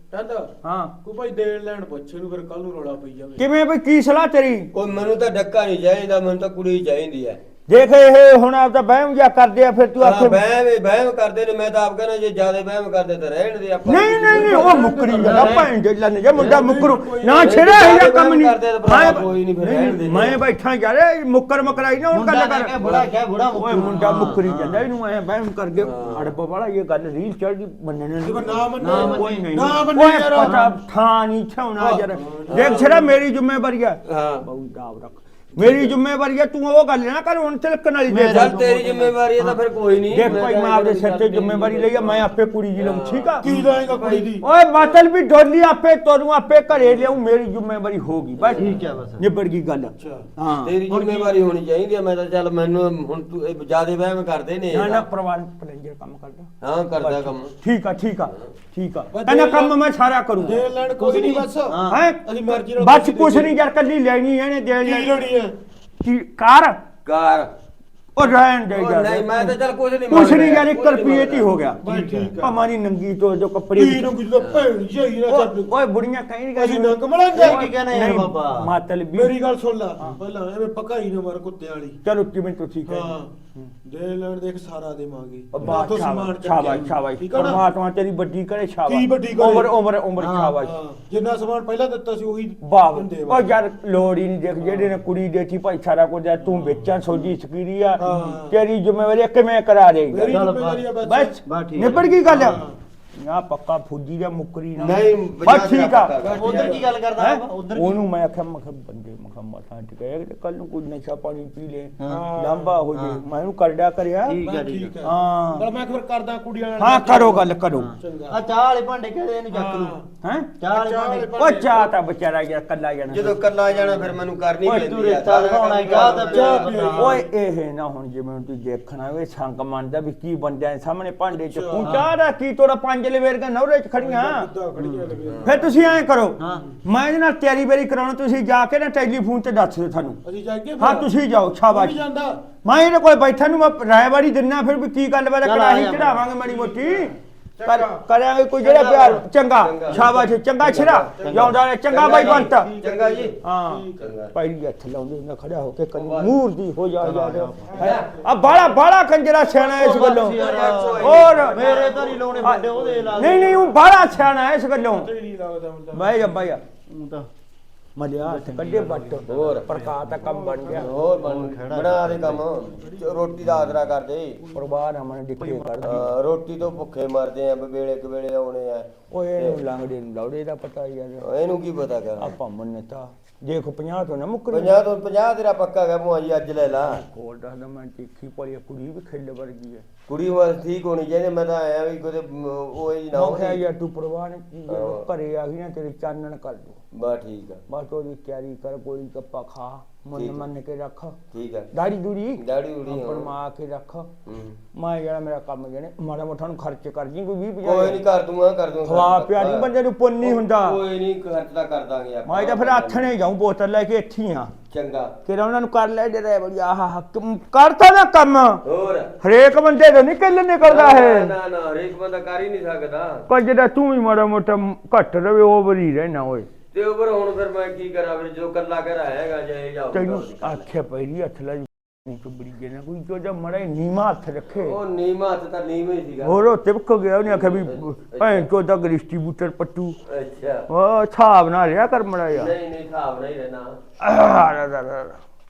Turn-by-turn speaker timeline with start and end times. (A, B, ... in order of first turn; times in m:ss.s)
0:00.1-0:00.5 A
0:00.6-0:00.9 B
0:01.0-0:03.4 A
0:03.4-0:04.7 B
0:04.7-0:07.4 C
0:07.7-0:10.4 B
0:10.0-0:14.8 C
0:13.8-0:22.7 B
0:13.9-0:15.7 A
0:15.1-0:15.7 D
0:16.3-0:17.9 A
0:16.5-0:20.4 C
0:22.1-0:24.8 D
0:23.6-0:38.6 B
0:25.7-0:26.3 C
0:28.2-0:30.8 A
0:28.8-0:29.5 D
0:31.8-0:33.1 A
0:32.5-0:33.0 C
0:34.0-0:34.4 C
0:38.1-0:39.1 D
0:38.2-0:45.0 C
0:40.1-0:43.4 B
0:43.4-0:44.4 A
0:44.4-0:51.2 B
0:48.4-0:48.8 C
0:48.5-0:49.2 D
0:50.0-0:50.3 A
0:50.6-0:55.0 C
0:54.7-1:00.7 B
0:56.6-0:57.5 C
0:59.1-0:59.8 A
1:00.4-1:03.5 A
1:00.8-1:02.0 D
1:01.9-1:05.3 B
1:04.8-1:05.5 A
1:06.0-1:06.8 B
1:07.0-1:07.5 C
1:08.2-1:09.5 B
1:08.7-1:11.5 C
1:10.1-1:11.8 B
1:11.8-1:12.6 A
1:11.8-1:12.4 D
1:12.4-1:14.1 B
1:13.7-1:15.8 A
1:14.4-1:14.7 C
1:15.3-1:19.3 B
1:16.5-1:17.7 A
1:17.3-1:18.7 D
1:19.1-1:22.0 A
1:22.0-1:23.7 B
1:22.9-1:23.3 A
1:23.8-1:27.6 A
1:25.5-1:30.8 B
1:28.9-1:29.7 A
1:30.2-1:30.6 D
1:30.6-1:33.5 A
1:32.6-1:40.5 B
1:38.0-1:38.6 A
1:38.0-1:38.4 D
1:40.1-1:42.7 A
1:40.2-1:40.9 D
1:41.0-1:42.6 B
1:41.4-1:42.6 D
1:43.1-1:46.2 B
1:44.8-1:45.1 A
1:44.8-1:46.8 C
1:46.2-1:46.8 A
1:46.3-1:48.0 D
1:47.2-1:54.4 B
1:52.0-1:52.3 D
1:52.0-1:52.8 A
1:52.9-1:53.2 D
1:54.2-1:55.0 D
1:54.4-1:57.5 A
1:55.0-1:55.7 B
1:56.8-1:57.9 B
1:57.8-2:00.0 D
1:58.0-1:58.4 A
1:59.5-2:00.0 A
2:00.2-2:00.6 B
2:00.6-2:01.4 D
2:00.7-2:01.9 A
2:01.4-2:03.4 B
2:03.1-2:06.8 C
2:04.6-2:07.2 D
2:04.6-2:04.9 B
2:05.8-2:07.2 A
2:06.0-2:14.5 B
2:11.4-2:12.0 A
2:11.8-2:12.1 D
2:14.0-2:16.0 A
2:14.8-2:15.2 D
2:15.4-2:20.2 B
2:16.4-2:16.6 D
2:20.2-2:21.1 A
2:20.8-2:22.0 B
2:21.7-2:22.4 A
2:22.6-2:32.8 B
2:25.4-2:26.3 D
2:26.4-2:28.0 A
2:28.6-2:29.2 D
2:28.7-2:33.4 C
2:29.9-2:30.3 D
2:31.2-2:31.4 A
2:31.3-2:32.5 D
2:32.0-2:34.1 A
2:33.4-2:40.4 B
2:34.0-2:34.3 C
2:35.9-2:36.3 C
2:37.0-2:37.8 D
2:37.7-2:38.5 A
2:37.8-2:38.1 C
2:39.4-2:40.2 A
2:39.6-2:43.7 D
2:40.0-2:42.3 C
2:41.0-2:41.7 B
2:41.1-2:43.7 A
2:42.4-2:45.1 B
2:44.8-2:46.4 A
2:45.9-2:46.6 B
2:46.9-2:47.3 D
2:48.0-2:50.9 B
2:48.2-2:52.4 D
2:49.3-2:49.6 C
2:50.2-2:50.9 A
2:50.7-2:54.4 C
2:52.8-2:53.4 A
2:54.5-2:56.1 B
2:55.4-2:56.1 D
2:55.8-2:59.6 C
2:59.1-3:01.3 B
3:01.2-3:02.3 C
3:02.2-3:04.8 B
3:04.5-3:07.0 C
3:06.9-3:09.9 B
3:10.1-3:13.6 C
3:13.1-3:16.8 B
3:14.7-3:15.0 C
3:16.9-3:17.6 C
3:17.7-3:21.2 B
3:20.1-3:20.4 C
3:21.3-3:21.7 C
3:21.7-3:24.1 B
3:22.4-3:23.3 C
3:24.2-3:24.6 C
3:24.7-3:28.0 B
3:27.6-3:29.7 C
3:28.8-3:30.8 B
3:30.2-3:33.0 C
3:32.2-3:34.5 B
3:34.7-3:35.1 C
3:35.2-3:38.6 B
3:38.6-3:39.1 C
3:39.2-3:41.3 B
3:40.6-3:43.2 C
3:43.3-3:46.5 B
3:46.7-3:50.6 C
3:49.9-3:54.8 B
3:54.6-3:56.4 C
3:56.2-4:00.0 B
3:57.2-3:58.5 C
4:00.1-4:00.7 C
4:00.7-4:02.5 B
4:02.3-4:03.8 C
4:04.0-4:05.2 B